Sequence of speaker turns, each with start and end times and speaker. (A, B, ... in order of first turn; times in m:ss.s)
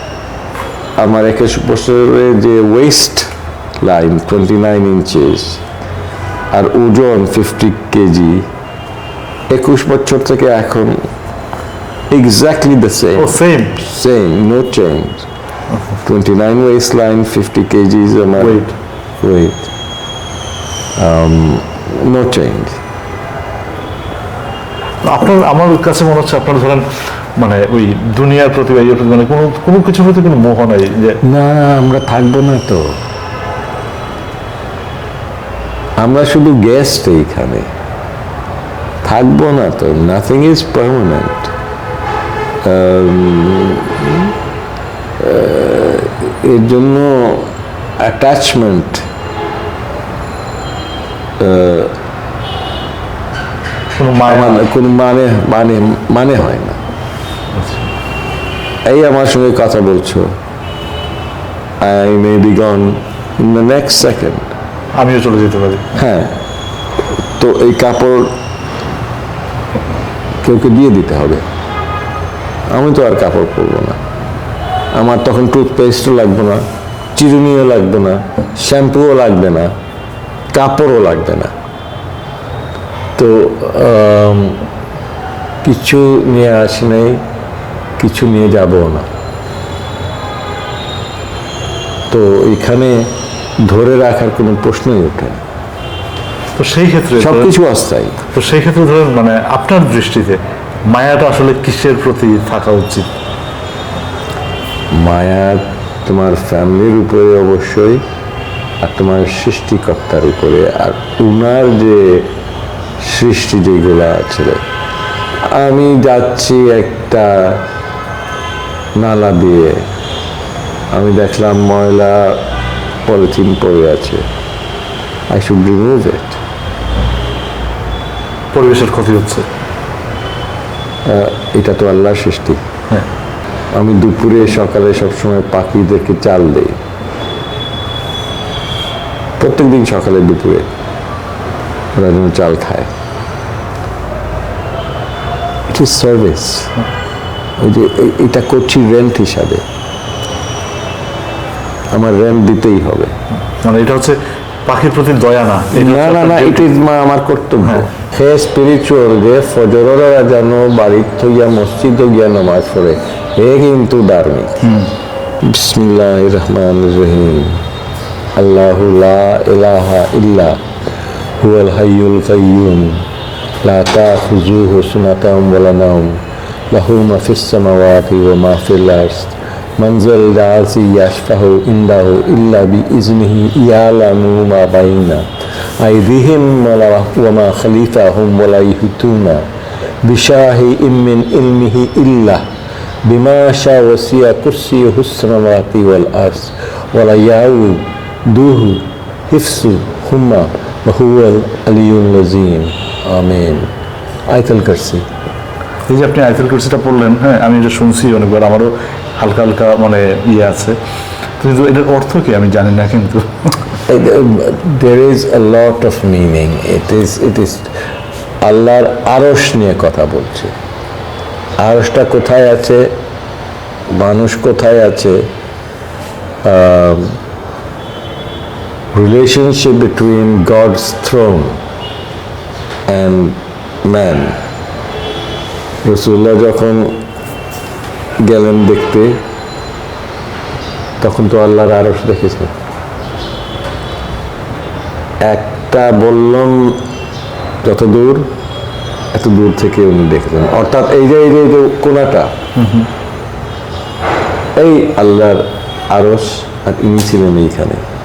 0:01.0-0:05.6 A
0:06.5-0:08.5 A
0:09.5-0:11.0 A
0:12.1-0:15.3 A
0:13.2-0:13.8 B
0:16.0-0:18.6 A
0:18.4-0:18.7 B
0:19.2-0:19.7 A
0:21.0-0:22.8 A
0:25.0-0:26.8 B
0:27.4-0:31.2 B
0:31.2-0:32.9 A
0:36.0-0:37.7 A
0:39.0-0:41.5 A
0:42.6-0:44.3 A
0:45.2-0:47.5 A
0:48.0-0:49.0 A
0:51.4-0:51.9 A
0:54.0-0:54.7 B
0:54.2-0:56.8 A
0:57.6-0:57.9 B
0:58.8-1:00.3 A
1:01.8-1:04.4 A
1:05.0-1:05.8 B
1:06.0-1:06.3 A
1:07.4-1:08.3 A
1:10.4-1:11.4 A
1:12.7-1:14.0 A
1:14.9-1:16.6 A
1:17.2-1:19.7 A
1:20.5-1:21.5 A
1:23.2-1:24.6 A
1:25.6-1:27.2 A
1:28.0-1:29.1 A
1:32.1-1:33.1 A
1:33.6-1:35.4 A
1:36.6-1:37.6 B
1:37.2-1:38.2 A
1:38.3-1:43.1 B
1:44.9-1:48.0 A
1:48.8-1:52.3 A
1:53.0-1:54.6 A
1:55.5-1:57.6 A
1:59.0-1:59.8 A
2:00.9-2:02.4 A
2:03.1-2:04.2 A
2:05.3-2:06.4 A
2:08.5-2:09.5 B
2:11.1-2:12.6 A
2:13.7-2:16.8 A
2:19.4-2:20.7 A
2:22.0-2:22.9 A
2:25.7-2:26.7 A
2:27.6-2:29.6 A
2:31.9-2:33.1 A
2:33.6-2:36.7 B
2:35.7-2:44.6 A
2:44.6-2:44.9 B
2:45.4-2:47.6 A
2:48.4-2:50.6 A
2:51.4-2:53.0 A
2:53.6-3:05.3 A
3:05.8-3:09.4 A
3:10.0-3:12.4 A
3:13.0-3:23.7 A
3:24.3-3:25.0 A
3:25.9-3:30.8 B
3:31.4-3:33.6 B
3:33.9-3:37.7 A
3:38.4-3:40.5 A
3:41.6-3:42.9 A
3:43.9-3:45.2 A
3:46.4-3:47.2 A
3:48.9-3:51.6 A
3:52.9-3:54.4 A
3:55.8-3:57.0 A
3:58.2-3:59.2 A
4:01.0-4:02.5 A
4:05.2-4:06.8 A
4:07.6-4:08.3 A
4:09.1-4:12.3 A
4:12.6-4:12.9 B
4:14.6-4:17.8 A